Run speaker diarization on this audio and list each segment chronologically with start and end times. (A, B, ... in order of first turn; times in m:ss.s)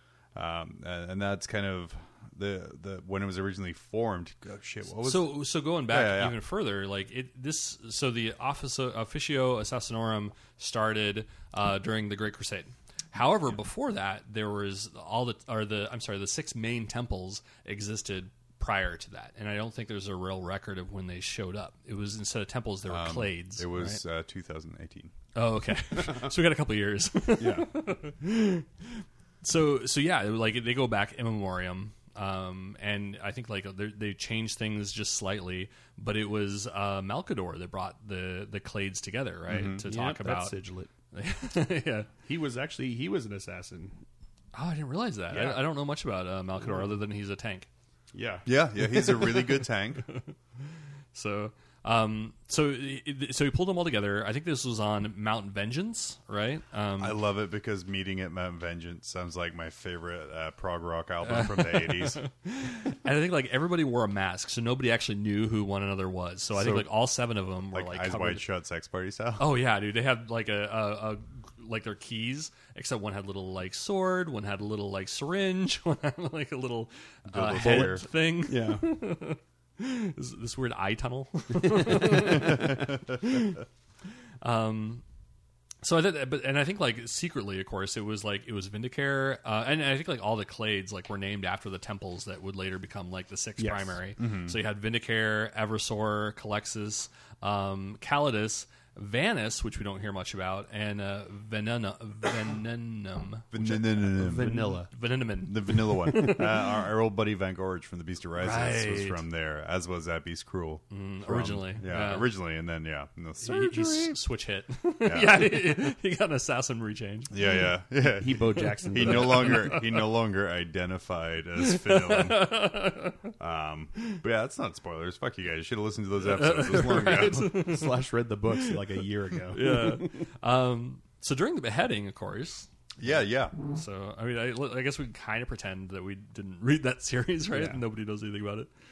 0:00.3-0:06.3 A
0:05.0-0:24.0 B
0:22.9-0:25.1 A
0:25.3-0:40.6 B
0:27.4-0:27.7 C
0:39.5-0:39.8 A
0:39.8-0:40.9 C
0:41.1-0:42.1 B
0:42.2-0:44.0 C
0:44.5-0:47.7 B
0:45.3-0:45.6 C
0:48.1-0:48.5 C
0:48.4-0:50.0 A
0:51.1-0:57.2 B
0:57.0-1:02.2 A
1:01.2-1:08.4 B
1:06.6-1:07.0 A
1:07.7-1:09.4 A
1:09.4-1:23.6 B
1:17.2-1:18.0 A
1:18.4-1:18.9 C
1:21.6-1:22.6 C
1:24.4-1:25.0 B
1:25.8-1:43.5 B
1:33.6-1:34.0 C
1:34.2-1:34.5 A
1:43.5-1:44.7 A
1:43.6-1:44.9 C
1:44.3-1:46.7 B
1:45.4-1:54.2 A
1:48.4-1:49.2 B
1:50.9-1:52.3 B
1:53.4-1:57.5 B
1:55.0-1:55.7 A
1:57.3-2:02.6 A
1:58.2-1:59.7 C
1:58.9-2:00.0 B
2:01.6-2:03.3 B
2:03.4-2:07.7 A
2:06.2-2:08.0 B
2:07.2-2:10.2 C
2:08.5-2:08.8 B
2:09.5-2:12.7 B
2:13.0-2:13.6 A
2:13.6-2:18.7 B
2:17.5-2:17.8 C